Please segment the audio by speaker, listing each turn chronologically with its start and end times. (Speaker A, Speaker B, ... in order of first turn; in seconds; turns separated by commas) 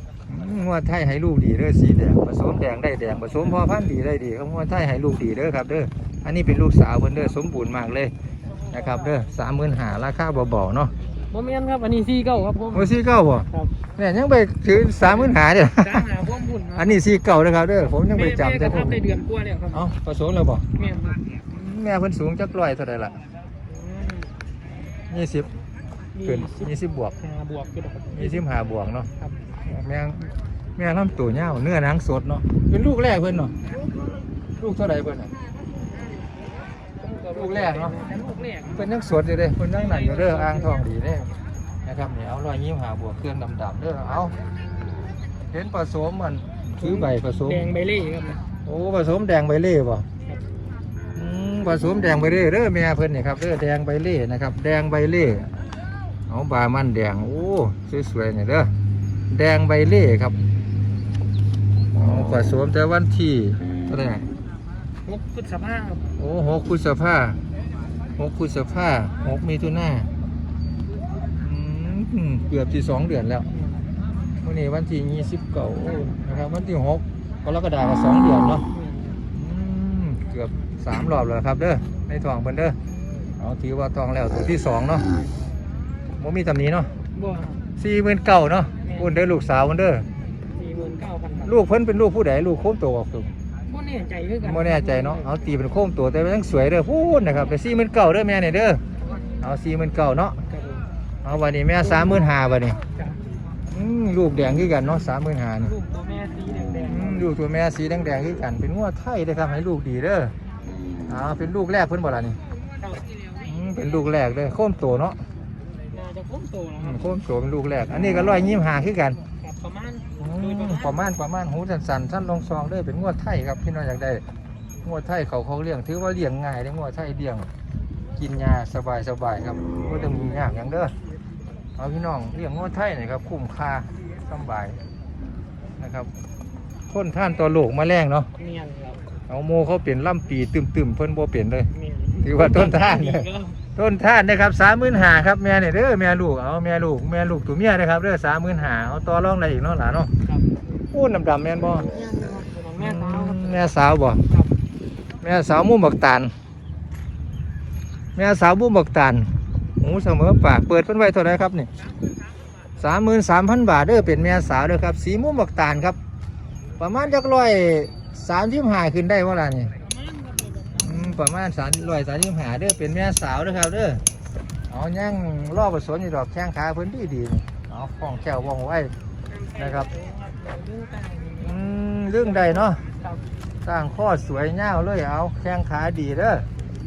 Speaker A: 0.3-8.1, Speaker A: 8.7-10.9, Speaker B: 11.3-13.0, Speaker A: 12.7-16.1, Speaker B: 15.8-17.0, Speaker A: 16.8-19.0, Speaker B: 18.0-19.9, Speaker A: 19.7-20.6, Speaker B: 20.8-21.2, Speaker A: 21.5-23.2, Speaker B: 23.7-24.3, Speaker A: 25.1-25.5, Speaker B: 26.1-28.4, Speaker A: 26.2-27.1, Speaker A: 28.1-29.1, Speaker A: 29.6-33.5, Speaker A: 34.6-35.3, Speaker B: 37.0-38.9, Speaker A: 37.3-38.0, Speaker A: 38.8-41.3, Speaker B: 39.7-40.8, Speaker A: 41.9-44.3, Speaker A: 45.5-47.7, Speaker B: 46.8-48.4, Speaker A: 48.6-50.0, Speaker A: 51.1-55.5, Speaker A: 56.3-58.7, Speaker A: 59.3-60.4, Speaker A: 62.0-64.2, Speaker B: 65.0-66.1, Speaker A: 66.2-67.4, Speaker A: 68.2-70.1, Speaker A: 71.4-73.5, Speaker B: 73.6-73.9, Speaker A: 74.4-78.6, Speaker B: 78.7-79.2, Speaker A: 79.3-82.8, Speaker A: 83.4-85.1, Speaker A: 86.2-86.9, Speaker B: 87.1-87.6, Speaker A: 87.8-90.1, Speaker B: 88.8-89.1, Speaker B: 90.5-91.6, Speaker A: 91.4-93.3, Speaker B: 93.7-95.3, Speaker A: 94.4-98.8, Speaker A: 99.4-100.4, Speaker B: 100.5-100.9, Speaker A: 101.2-102.8, Speaker B: 101.8-103.2, Speaker A: 103.7-105.7, Speaker B: 105.6-107.3, Speaker A: 106.8-110.3, Speaker A: 111.1-112.4, Speaker B: 112.8-113.2, Speaker A: 113.5-115.2, Speaker B: 115.9-117.1, Speaker A: 116.8-119.2, Speaker B: 119.4-121.2, Speaker A: 120.2-124.2, Speaker A: 124.8-127.5, Speaker A: 128.2-130.9, Speaker A: 131.8-134.8, Speaker A: 135.8-136.1, Speaker A: 136.9-138.3, Speaker B: 138.4-139.0, Speaker A: 139.3-141.7, Speaker B: 141.7-143.6, Speaker A: 142.2-150.1, Speaker A: 150.9-151.9, Speaker B: 151.9-154.5, Speaker A: 152.8-154.2, Speaker A: 155.2-156.3, Speaker A: 158.2-159.3, Speaker A: 159.8-161.7, Speaker A: 162.8-166.0, Speaker A: 166.8-169.7, Speaker B: 169.8-171.2, Speaker A: 170.8-174.0, Speaker A: 174.7-178.9, Speaker B: 179.3-181.6, Speaker A: 179.6-179.9, Speaker A: 181.4-182.8, Speaker B: 182.1-183.2, Speaker A: 183.6-186.4